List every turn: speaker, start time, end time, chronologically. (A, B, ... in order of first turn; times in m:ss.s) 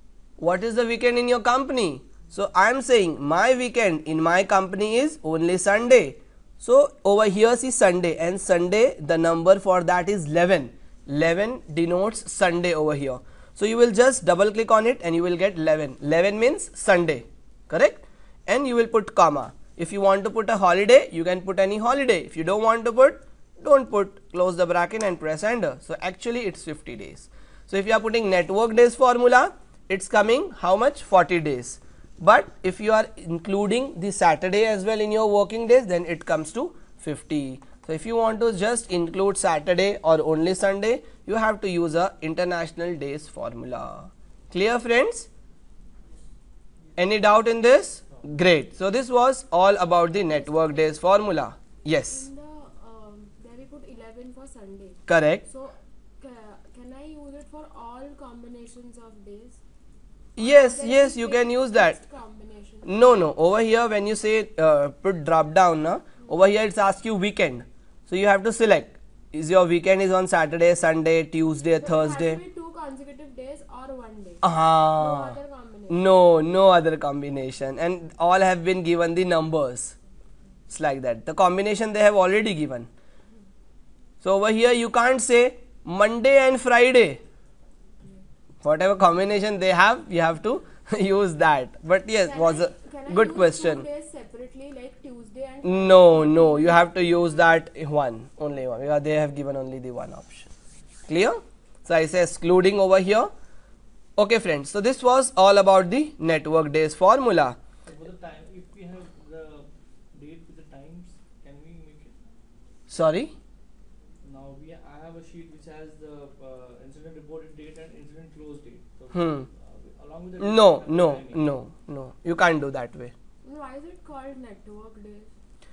0:00.4-0:45.3 A
0:47.0-0:52.3 A
0:52.1-0:59.6 B
0:55.1-0:55.4 A
1:00.4-1:02.0 A
1:00.4-1:03.3 B
1:02.8-1:12.4 A
1:06.2-1:06.5 B
1:11.8-1:16.0 B
1:14.4-1:15.4 A
1:15.9-1:20.0 A
1:20.7-1:22.9 A
1:24.2-1:27.2 A
1:28.6-1:33.9 A
1:32.2-1:37.6 B
1:35.6-1:40.5 A
1:41.1-1:43.3 A
1:44.2-1:47.6 A
1:47.9-1:52.2 C
1:52.9-1:53.3 A
1:54.2-2:01.5 C
1:59.1-1:59.5 A
2:00.4-2:03.1 A
2:03.4-2:05.3 B